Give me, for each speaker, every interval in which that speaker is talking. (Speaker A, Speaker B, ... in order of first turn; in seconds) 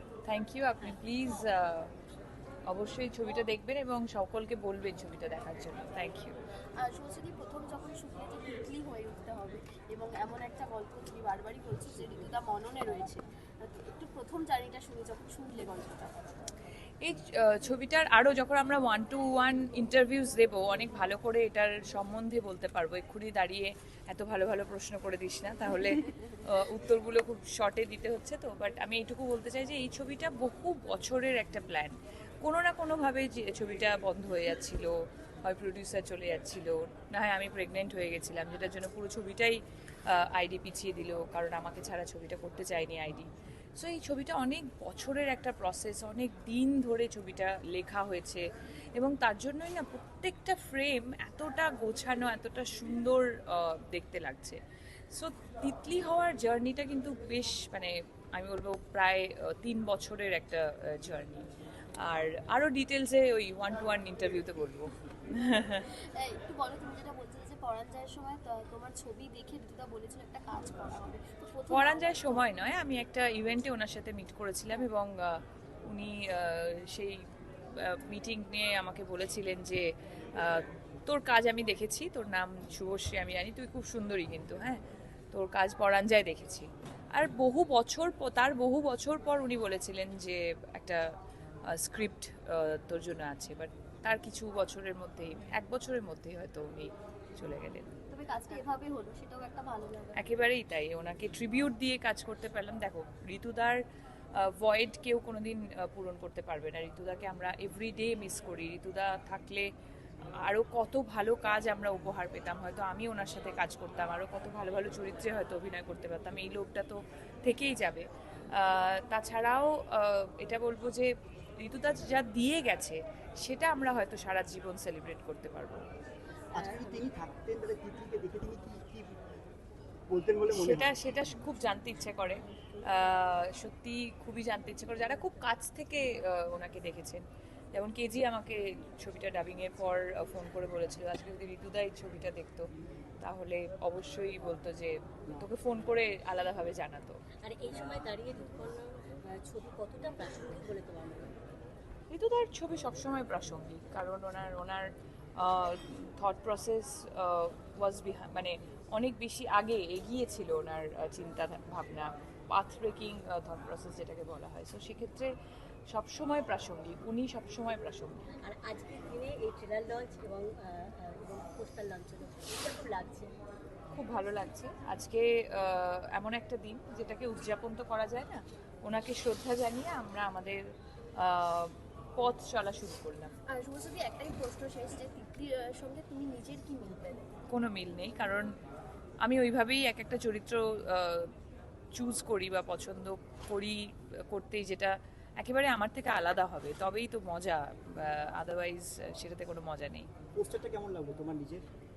Speaker A: 0.2-1.9, 2.7-6.3, 17.0-34.9, 35.4-48.4, 48.9-54.6, 55.1-61.5, 62.0-65.9, 71.7-77.2, 77.7-79.8, 80.4-84.8, 85.3-91.0, 91.7-97.9, 100.2-103.8, 104.3-109.7, 110.4-125.8, 130.5-137.2, 137.7-142.7, 143.2-147.2, 152.1-165.3, 165.9-168.2, 173.9-180.6, 181.2-183.3, 187.5-188.5, 189.2-191.3, 191.9-200.1
Speaker B: 6.8-16.1, 65.7-72.5, 98.1-100.3, 183.5-187.2
Speaker C: 126.5-129.2, 130.1-130.9, 200.3-201.6
Speaker D: 126.5-127.1, 147.4-151.4, 168.4-173.3